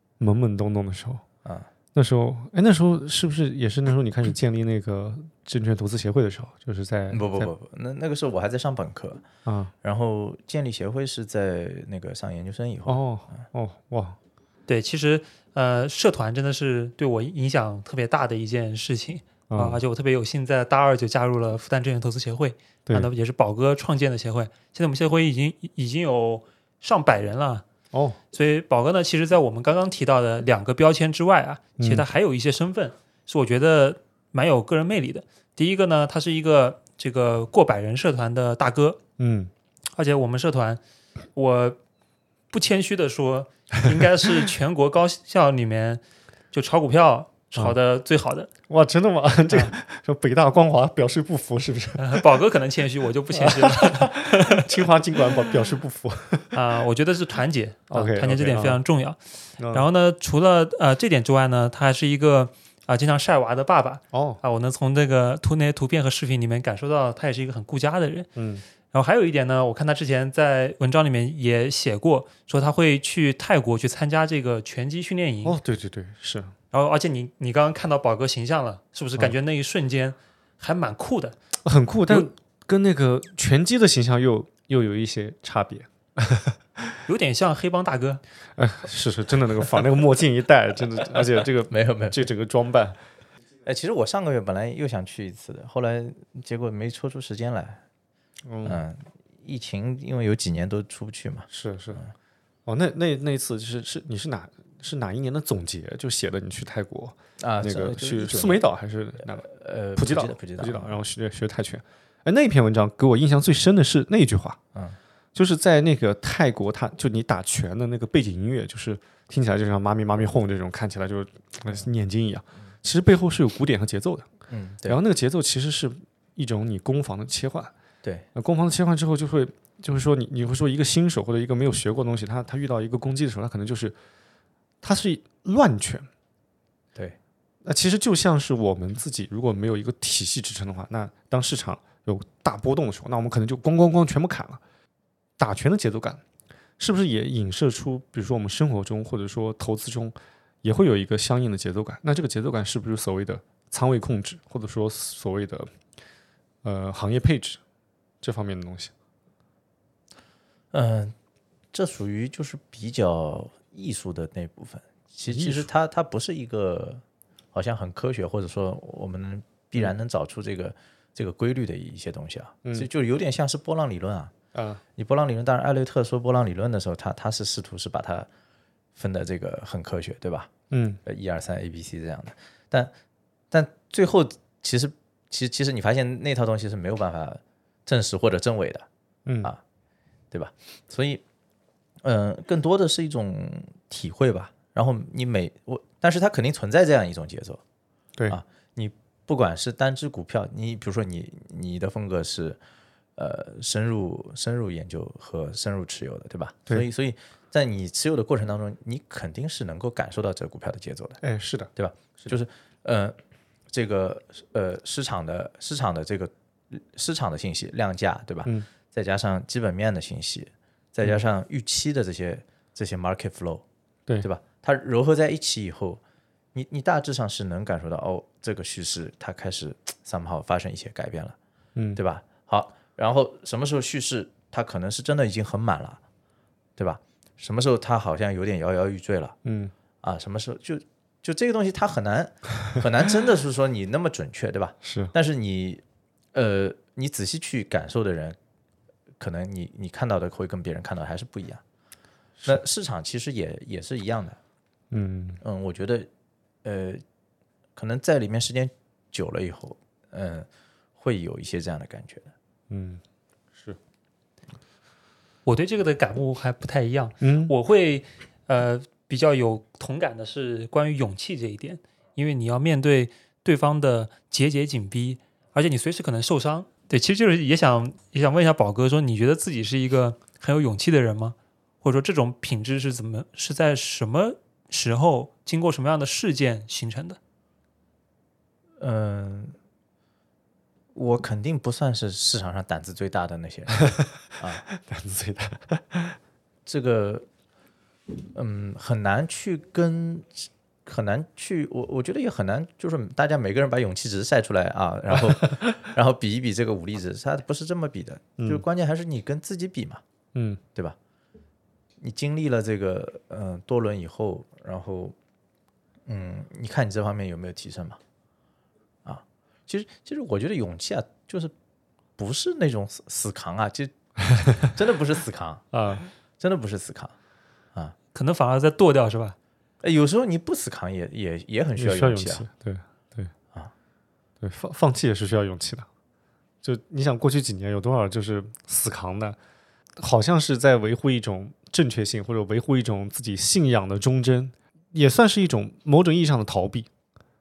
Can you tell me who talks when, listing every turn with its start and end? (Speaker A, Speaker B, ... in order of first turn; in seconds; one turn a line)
Speaker A: 0.2-1.2
Speaker A: 1.9-7.5
Speaker B: 7.1-9.2
Speaker A: 9.4-9.7
Speaker B: 9.8-13.4
Speaker A: 12.9-14.2
Speaker C: 14.7-27.6
Speaker A: 19.5-19.8
Speaker A: 27.9-28.2
Speaker C: 28.3-39.0
Speaker A: 31.8-32.0
Speaker A: 39.2-39.5
Speaker C: 39.9-40.8
Speaker C: 41.3-41.8
Speaker C: 42.5-48.5
Speaker A: 48.7-52.2
Speaker C: 52.0-54.8
Speaker A: 53.3-56.6
Speaker C: 56.5-68.3
Speaker A: 57.9-58.8
Speaker A: 59.6-59.9
Speaker A: 64.1-64.4
Speaker A: 68.3-68.6
Speaker C: 68.9-75.6
Speaker A: 75.4-76.5
Speaker C: 76.7-81.3
Speaker A: 81.6-87.0
Speaker C: 87.1-88.2
Speaker A: 88.5-93.0
Speaker B: 91.7-92.3
Speaker B: 93.6-97.8
Speaker A: 98.5-98.8
Speaker B: 98.6-102.1
Speaker A: 101.5-102.0
Speaker A: 102.7-114.6
Speaker B: 107.4-108.6
Speaker B: 109.2-111.0
Speaker A: 115.3-124.3
Speaker B: 124.5-125.0
Speaker A: 124.9-127.7
Speaker A: 128.3-133.9
Speaker A: 134.8-136.1
Speaker A: 137.6-144.6
Speaker A: 145.4-146.2
Speaker A: 146.8-155.7
Speaker A: 156.6-157.6
Speaker A: 158.2-158.9
Speaker B: 160.7-161.1
Speaker B: 161.7-167.0
Speaker A: 165.3-165.7
Speaker B: 167.5-174.3
Speaker A: 174.5-174.8
Speaker B: 174.9-178.3
Speaker B: 178.9-180.5
Speaker A: 180.7-181.0
Speaker B: 181.0-182.9
Speaker B: 183.5-188.9
Speaker A: 189.2-189.5
Speaker B: 190.3-191.2
Speaker B: 192.0-197.6
Speaker B: 198.3-202.6
Speaker B: 203.2-211.2
Speaker A: 211.2-212.3
Speaker B: 211.7-213.2
Speaker B: 213.7-223.6
Speaker B: 224.2-226.0
Speaker B: 226.5-231.3
Speaker B: 231.9-236.0
Speaker B: 236.8-239.4
Speaker A: 239.4-239.7
Speaker B: 240.0-245.8
Speaker A: 244.8-245.1
Speaker B: 246.3-248.3
Speaker B: 249.2-251.6
Speaker B: 252.4-254.4
Speaker A: 254.9-255.4
Speaker B: 255.4-256.1
Speaker B: 256.6-257.0
Speaker B: 257.8-260.5
Speaker B: 261.0-262.3
Speaker A: 262.7-263.0
Speaker C: 265.4-287.2
Speaker A: 267.2-267.5
Speaker B: 288.8-289.5
Speaker B: 290.9-294.6
Speaker A: 294.7-296.2
Speaker B: 296.6-297.2
Speaker B: 298.3-310.0
Speaker A: 308.4-308.6
Speaker A: 310.3-310.6
Speaker B: 312.0-315.1
Speaker B: 316.1-318.0
Speaker B: 319.0-321.5
Speaker B: 322.2-323.9
Speaker B: 324.6-325.6
Speaker A: 325.7-326.1
Speaker B: 326.4-327.1
Speaker C: 328.1-329.4
Speaker B: 329.8-332.4
Speaker A: 331.8-333.3
Speaker A: 334.4-335.9
Speaker A: 336.6-339.4
Speaker A: 339.9-346.9